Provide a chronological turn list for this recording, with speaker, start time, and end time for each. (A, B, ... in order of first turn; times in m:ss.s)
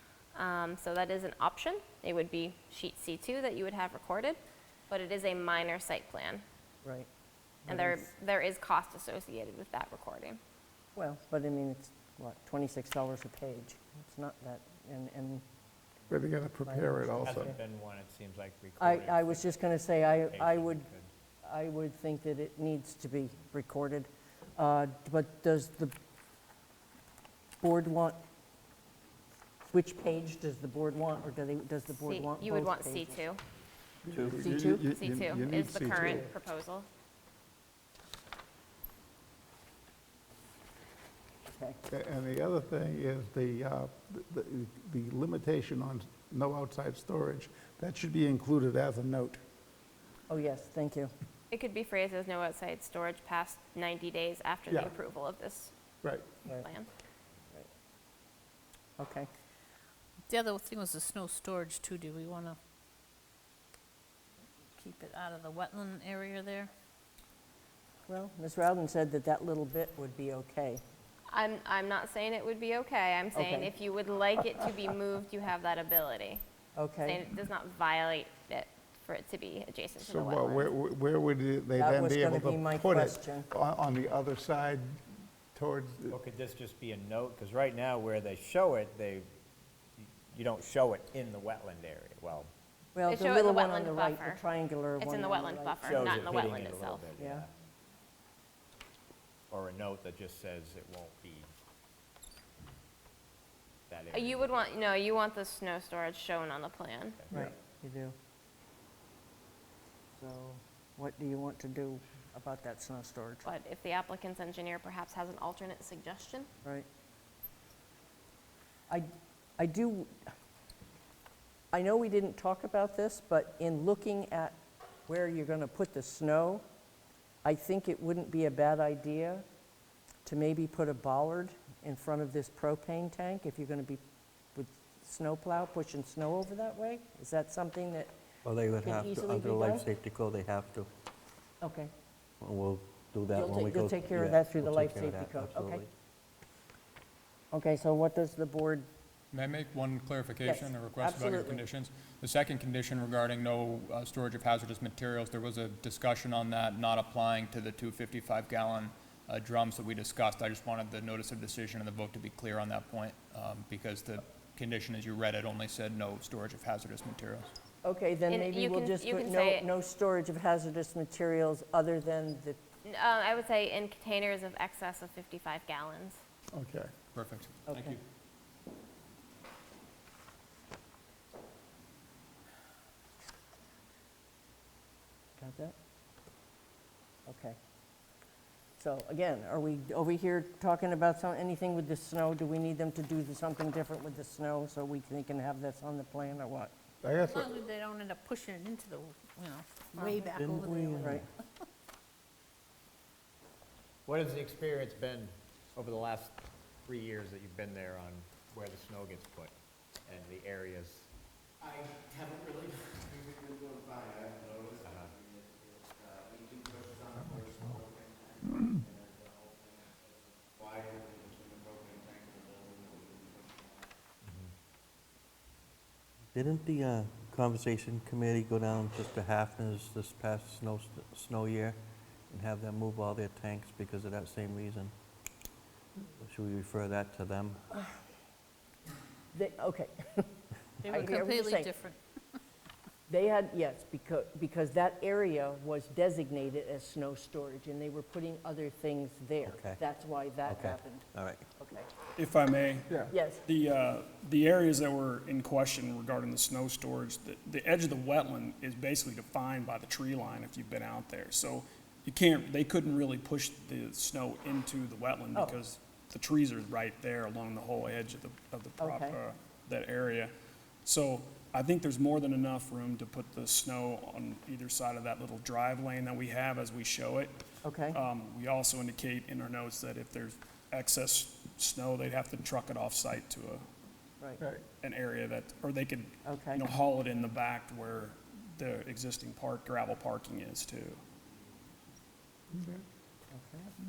0:00.3-0:04.4 A
0:04.9-0:06.4 A
0:07.7-0:08.1 B
0:07.7-0:10.4 A
0:11.0-0:15.4 B
0:16.1-0:17.5 C
0:16.6-0:17.5 B
0:17.2-0:19.7 D
0:18.8-0:20.9 B
0:20.3-0:21.1 D
0:21.4-0:25.9 B
0:27.6-0:28.2 B
0:29.7-0:33.2 B
0:32.0-0:33.4 A
0:34.0-0:36.3 C
0:34.1-0:34.4 E
0:34.3-0:34.9 B
0:34.8-0:36.9 A
0:41.5-0:41.8 B
0:41.9-0:49.4 C
0:50.3-0:51.1 B
0:51.5-0:55.7 A
0:56.0-0:56.3 C
0:56.5-0:56.9 A
0:59.0-0:59.3 B
1:00.3-1:02.6 F
1:04.8-1:06.7 F
1:08.1-1:10.8 B
1:11.3-1:16.4 A
1:13.3-1:13.7 B
1:16.8-1:17.2 B
1:17.0-1:20.7 A
1:20.0-1:26.2 C
1:21.8-1:23.5 B
1:26.1-1:29.3 D
1:30.0-1:32.5 D
1:32.9-1:36.2 B
1:33.1-1:34.4 A
1:35.0-1:37.0 A
1:35.8-1:37.5 D
1:37.2-1:37.4 B
1:39.5-1:41.5 D
1:43.9-1:44.6 D
1:44.1-1:47.2 A
1:47.3-1:48.1 B
1:50.2-1:53.5 B
1:53.4-1:56.5 A
1:58.9-2:00.3 B
2:01.7-2:06.6 B
2:07.4-2:09.4 B
2:10.2-2:14.0 B
2:14.5-2:18.1 B
2:18.4-2:20.9 E
2:18.8-2:19.9 B
2:21.6-2:21.9 B
2:22.4-2:25.9 E
2:23.3-2:25.8 B
2:27.5-2:28.9 B
2:29.3-2:47.5 G
2:30.4-2:31.6 B
2:47.8-2:52.6 B
2:48.3-2:49.7 A
2:52.8-2:56.2 A
2:56.5-2:56.9 C
2:57.1-2:58.0 G
2:57.7-2:58.0 B
3:05.4-3:05.7 B
3:07.3-3:07.6 B
3:08.8-3:16.7 B
3:17.0-3:17.6 C
3:17.2-3:21.2 F
3:20.3-3:21.1 E
3:24.0-3:29.5 D
3:30.0-3:31.1 D
3:31.7-3:32.6 H
3:33.2-3:35.2 H
3:34.8-3:35.1 D
3:36.3-3:38.0 H
3:37.2-3:37.8 C
3:46.3-3:51.8 E
3:52.3-3:54.9 E
3:56.2-3:57.6 E
3:59.3-4:00.3 B
4:00.8-4:02.0 F
4:00.9-4:01.7 B
4:03.1-4:11.0 B
4:09.5-4:09.8 E
4:10.5-4:11.4 E
4:11.6-4:11.9 B
4:12.2-4:30.3 I
4:13.1-4:13.4 B
4:28.8-4:29.2 B
4:30.8-4:37.3 I
4:37.6-4:38.0 B
4:37.9-4:43.6 I
4:44.8-4:51.0 I
4:46.2-4:46.6 B
4:52.5-4:52.8 C
4:53.3-4:53.7 B